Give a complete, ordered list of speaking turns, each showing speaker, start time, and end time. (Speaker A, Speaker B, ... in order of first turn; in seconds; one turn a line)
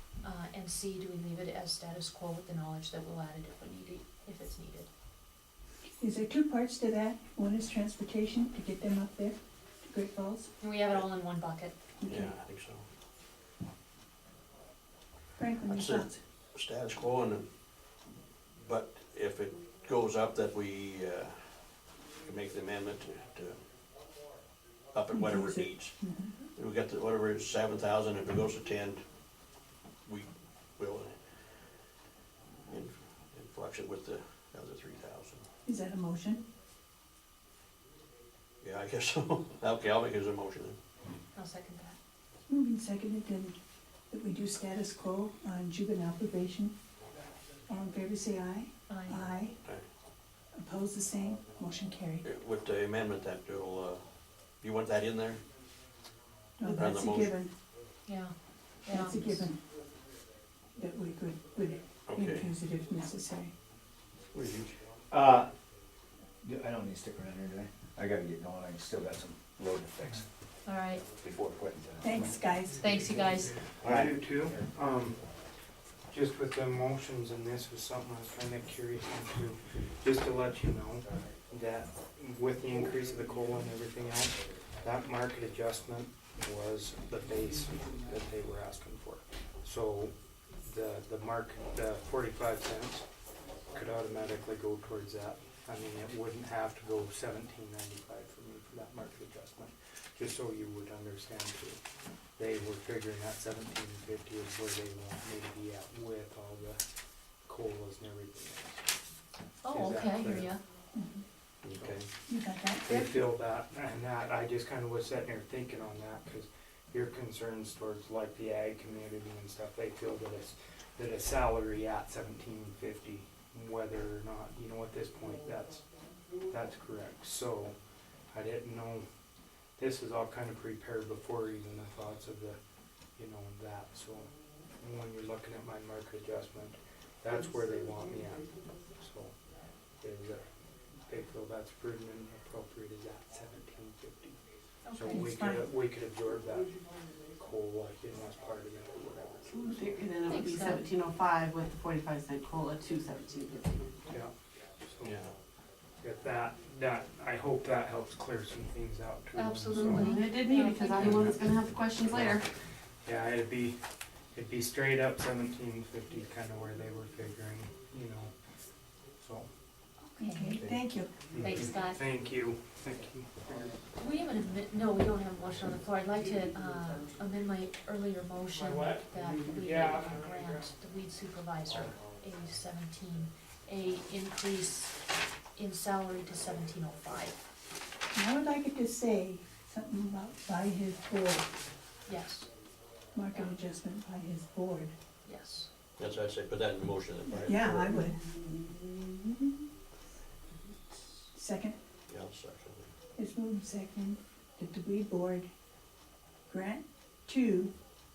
Speaker A: 0.2-4.9
Speaker B: 6.0-10.5
Speaker A: 10.6-11.8
Speaker B: 12.0-12.4
Speaker C: 12.1-12.9
Speaker B: 15.4-16.2
Speaker C: 15.7-17.5
Speaker C: 18.6-23.6
Speaker C: 24.9-26.0
Speaker B: 25.1-26.4
Speaker C: 26.5-29.0
Speaker C: 30.1-31.4
Speaker C: 32.7-35.5
Speaker B: 35.6-36.4
Speaker C: 38.6-40.8
Speaker A: 41.3-42.0
Speaker B: 42.5-43.6
Speaker B: 44.1-46.8
Speaker B: 47.7-49.6
Speaker A: 48.9-49.3
Speaker B: 50.5-52.2
Speaker C: 52.2-54.0
Speaker C: 54.6-55.4
Speaker B: 56.6-57.5
Speaker C: 56.7-57.4
Speaker A: 58.0-59.5
Speaker B: 58.9-59.6
Speaker B: 60.8-63.5
Speaker C: 62.1-62.5
Speaker C: 64.3-64.8
Speaker D: 65.1-65.5
Speaker D: 66.4-70.3
Speaker A: 70.7-71.0
Speaker D: 71.2-72.4
Speaker B: 72.0-72.9
Speaker E: 72.7-75.3
Speaker A: 72.8-73.7
Speaker D: 73.8-74.8
Speaker E: 76.1-93.1
Speaker E: 93.7-101.8
Speaker E: 102.4-106.8
Speaker E: 107.4-108.9
Speaker A: 109.6-110.6
Speaker E: 109.7-110.5
Speaker B: 110.9-111.2
Speaker C: 111.6-112.1
Speaker E: 111.7-112.1
Speaker B: 112.3-113.1
Speaker E: 112.8-127.8
Speaker E: 128.3-129.1
Speaker E: 129.8-132.6
Speaker E: 133.2-139.3
Speaker E: 140.0-144.4
Speaker A: 144.8-145.3
Speaker E: 144.9-149.6
Speaker B: 145.1-145.7
Speaker F: 149.4-153.9
Speaker A: 150.3-150.9
Speaker E: 154.1-155.3
Speaker C: 155.0-155.3
Speaker E: 156.0-160.4
Speaker A: 159.3-161.4
Speaker F: 159.7-162.5
Speaker E: 160.9-162.5
Speaker E: 163.0-163.8
Speaker E: 164.3-168.4
Speaker E: 169.2-169.5
Speaker B: 170.2-171.2
Speaker A: 170.2-170.5
Speaker E: 170.5-173.8
Speaker A: 171.4-172.0
Speaker A: 173.9-185.0
Speaker E: 178.5-180.7
Speaker A: 185.6-187.4
Speaker B: 188.1-191.5
Speaker A: 192.1-192.5
Speaker B: 193.1-194.9
Speaker A: 195.2-195.7
Speaker C: 196.0-198.0
Speaker B: 197.3-198.3
Speaker F: 197.8-199.6
Speaker B: 201.3-201.8
Speaker C: 202.1-202.9
Speaker B: 203.2-205.5
Speaker B: 206.5-207.7